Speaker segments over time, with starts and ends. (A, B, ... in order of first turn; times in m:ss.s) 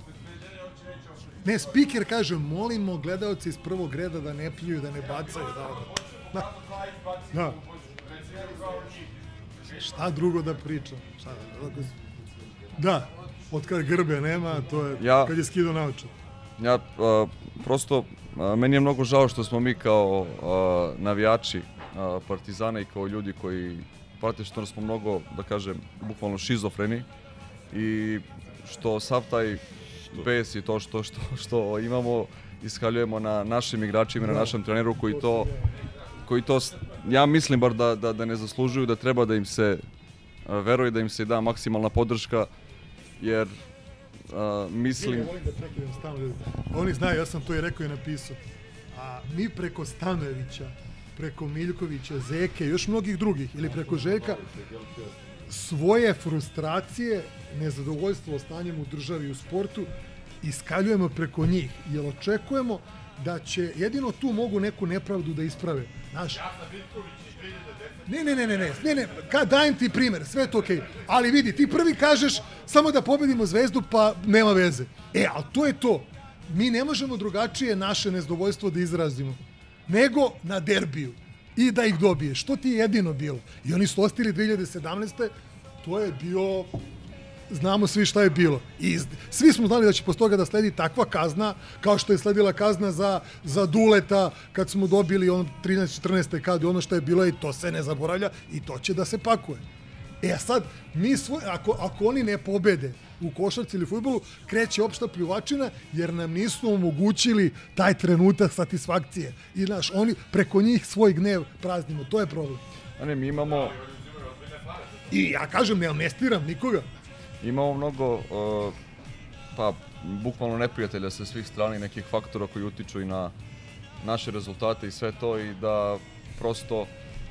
0:01.4-0:06.6 A
0:07.2-0:07.6 A
0:09.7-0:11.9 A
0:12.8-0:16.1 A
0:15.0-0:15.3 B
0:16.6-0:27.1 B
0:27.7-0:35.5 B
0:34.2-0:35.7 A
0:36.2-0:39.8 B
0:40.4-0:42.5 B
0:43.2-0:43.6 B
0:44.3-0:45.3 B
0:44.9-0:48.4 A
0:48.9-0:54.4 A
0:55.5-0:59.9 A
1:00.4-1:06.5 A
1:08.0-1:25.3 A
1:25.8-1:26.7 A
1:27.5-1:39.6 A
1:40.2-1:52.6 A
1:53.0-1:53.8 B
1:55.1-1:56.8 A
1:57.4-1:58.7 B
1:59.5-2:03.3 B
2:04.0-2:06.9 B